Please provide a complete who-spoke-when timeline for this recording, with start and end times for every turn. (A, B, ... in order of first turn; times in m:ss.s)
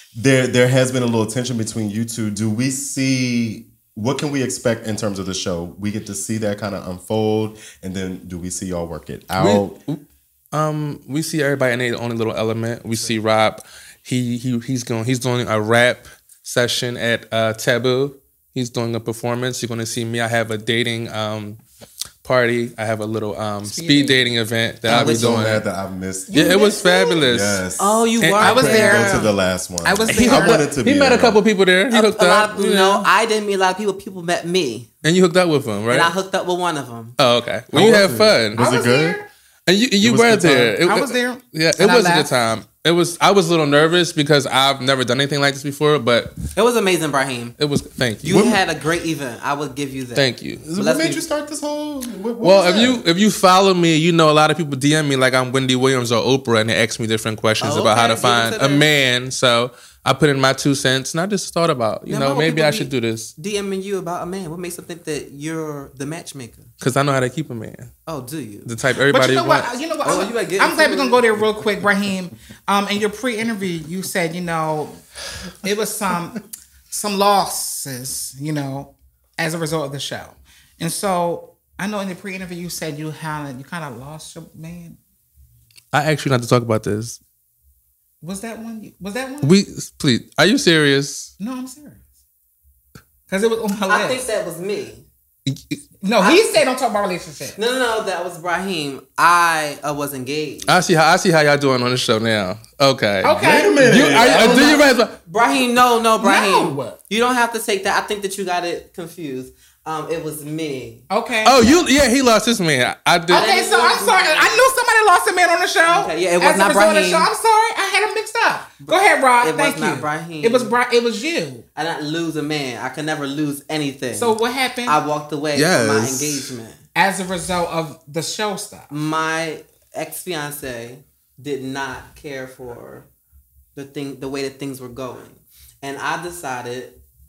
0:00.2-0:09.8 A
0:09.4-0:10.0 B
0:10.5-0:21.6 B
0:22.2-0:25.6 B
0:23.6-0:24.3 C
0:24.9-0:26.7 A
0:24.9-0:25.4 D
0:26.3-0:27.2 C
0:26.3-0:27.6 B
0:27.2-0:28.1 A
0:27.8-0:29.3 D
0:28.2-0:29.0 B
0:28.4-0:30.7 C
0:28.7-0:31.4 A
0:30.1-0:33.1 B
0:31.9-0:34.9 D
0:35.0-0:36.1 B
0:35.9-0:37.2 D
0:37.2-0:38.6 B
0:37.7-0:39.2 A
0:38.6-0:39.3 C
0:39.7-0:46.4 B
0:40.0-0:40.8 A
0:40.8-0:42.3 C
0:46.6-0:47.6 D
0:47.6-0:48.5 B
0:48.2-0:51.2 D
0:48.3-0:48.6 A
0:50.2-0:50.7 B
0:50.7-0:53.0 A
0:52.4-1:03.3 B
0:57.6-0:58.9 D
1:02.1-1:06.7 D
1:06.8-1:07.9 B
1:08.1-1:08.7 D
1:08.6-1:09.8 B
1:09.1-1:15.0 C
1:10.0-1:11.3 D
1:15.6-1:25.0 C
1:25.9-1:27.2 B
1:28.2-1:29.6 C
1:29.4-1:31.3 B
1:31.4-1:32.0 C
1:33.3-1:34.2 C
1:33.9-1:35.0 D
1:36.0-1:37.6 C
1:36.2-1:36.6 D
1:37.5-1:40.8 D
1:40.7-1:45.1 B
1:43.2-1:43.9 C
1:43.3-1:44.8 A
1:44.4-1:51.8 D
1:44.5-1:44.8 C
1:46.2-1:47.0 C
1:51.1-1:51.8 C
1:51.4-1:53.5 B
1:53.3-2:01.6 C
1:53.3-1:54.7 D
1:55.8-1:57.3 D
1:58.8-2:00.7 D
2:01.8-2:06.8 D
2:04.2-2:05.0 C
2:05.6-2:06.5 B
2:07.0-2:08.9 C
2:08.9-2:13.1 D
2:13.8-2:17.0 D